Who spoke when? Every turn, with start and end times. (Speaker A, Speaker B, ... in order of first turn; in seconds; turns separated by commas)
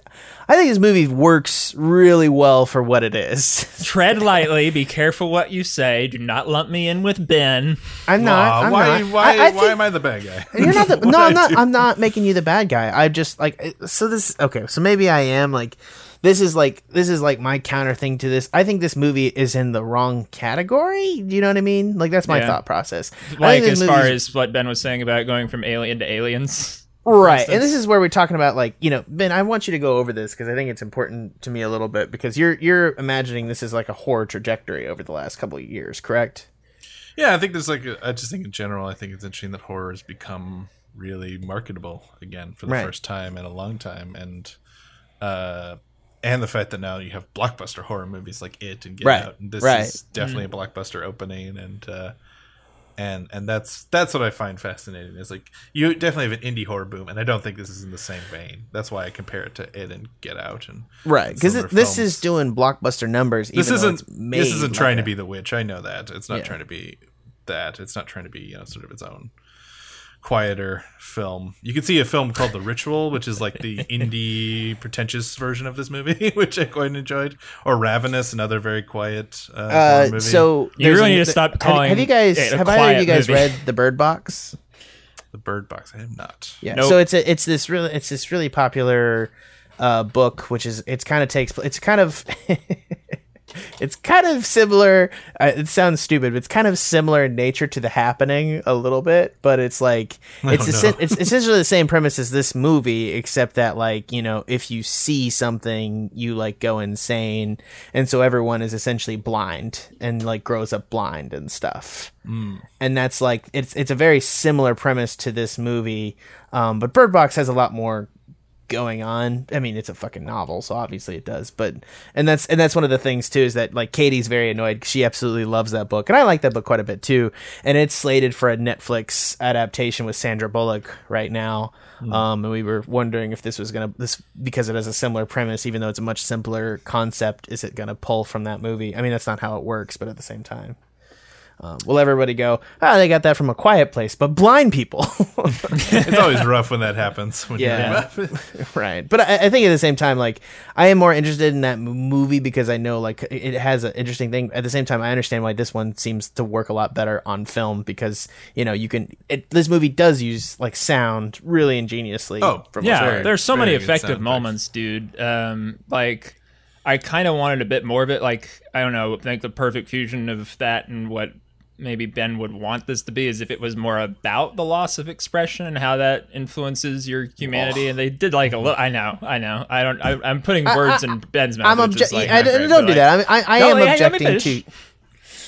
Speaker A: 0.5-3.9, Speaker B: 3.8-7.8, Speaker A: 8.1-9.8, Speaker C: 8.2-11.6, Speaker A: 10.5-24.2, Speaker B: 22.3-22.6, Speaker B: 23.3-27.7, Speaker A: 27.1-36.5, Speaker C: 37.1-44.5, Speaker C: 45.2-52.1, Speaker A: 49.0-50.0, Speaker B: 50.2-50.4, Speaker C: 53.0-62.2, Speaker A: 61.0-65.1, Speaker C: 63.5-69.3, Speaker C: 70.2-80.5, Speaker A: 79.7-84.5, Speaker B: 80.8-83.6, Speaker C: 85.3-86.6, Speaker A: 86.6-93.2, Speaker B: 86.7-87.0, Speaker A: 93.8-112.1, Speaker C: 100.4-101.3, Speaker C: 112.2-112.6, Speaker A: 112.8-118.1, Speaker A: 118.7-140.8, Speaker A: 141.6-146.3, Speaker B: 145.8-146.1, Speaker C: 145.9-148.4, Speaker A: 147.6-163.3, Speaker B: 147.7-148.0, Speaker C: 162.4-164.5, Speaker B: 162.8-184.6, Speaker A: 177.5-177.8, Speaker A: 180.6-184.6